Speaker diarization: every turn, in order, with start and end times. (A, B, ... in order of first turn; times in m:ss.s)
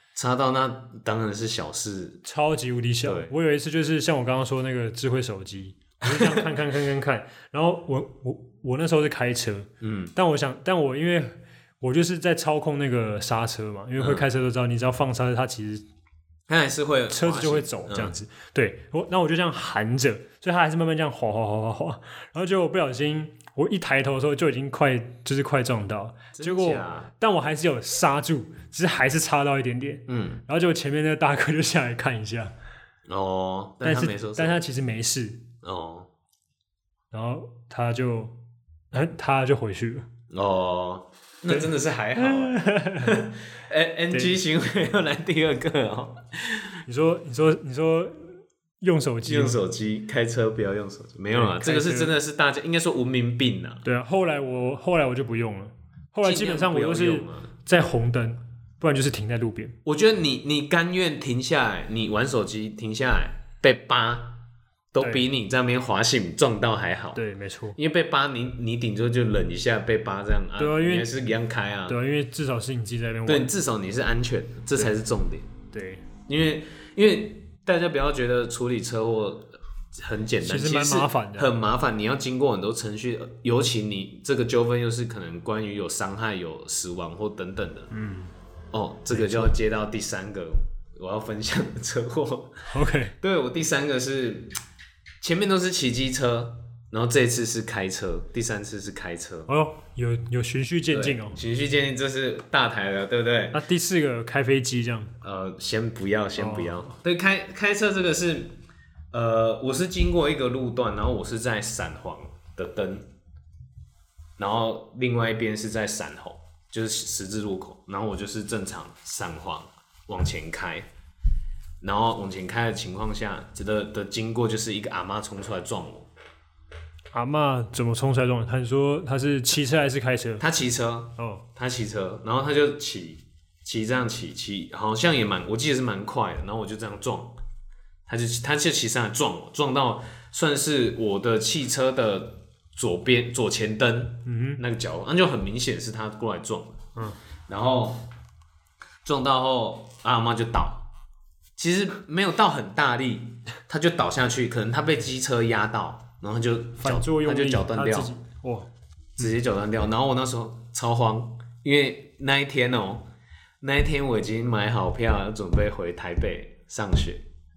0:00.2-0:02.2 A
0:02.2-0:15.8 B
0:03.0-0:03.3 A
0:06.1-0:06.4 A
0:09.8-0:10.1 A
0:14.0-0:14.3 A
0:16.5-0:18.2 A
0:17.1-0:32.5 B
0:26.4-0:27.1 A
0:30.1-0:30.4 A
0:33.1-0:34.6 A
0:33.8-0:35.5 B
0:35.6-0:36.1 A
0:37.1-0:38.4 B
0:38.9-0:40.1 B
0:40.3-0:46.7 A
0:42.2-0:43.2 B
0:44.1-0:44.4 B
0:46.9-0:49.6 B
0:49.2-0:53.8 A
0:51.3-0:52.1 B
0:53.8-0:59.8 B
0:56.2-0:57.5 A
0:59.8-1:07.2 A
1:05.0-1:05.2 B
1:07.2-1:07.8 B
1:07.8-1:12.0 A
1:10.6-1:11.1 B
1:11.9-1:13.5 B
1:13.3-1:15.5 A
1:15.7-1:16.1 B
1:16.3-1:27.9 A
1:20.4-1:21.6 B
1:27.9-1:28.3 B
1:28.7-1:34.5 A
1:29.1-1:29.5 B
1:32.7-1:33.2 B
1:35.2-1:39.5 A
1:39.5-1:41.4 B
1:40.9-1:43.6 A
1:43.5-1:45.1 B
1:45.2-1:48.6 A
1:46.4-1:46.9 B
1:49.1-1:53.1 A
1:54.4-2:00.9 A
2:01.8-2:06.1 A
2:07.1-2:10.4 B
2:10.4-2:17.4 A
2:11.2-2:11.4 B
2:18.1-2:26.9 A
2:24.2-2:24.6 B
2:27.5-2:28.0 A
2:29.0-2:30.9 A
2:31.6-2:38.1 A
2:36.8-2:38.7 B
2:39.2-2:43.1 A
2:43.6-2:47.2 A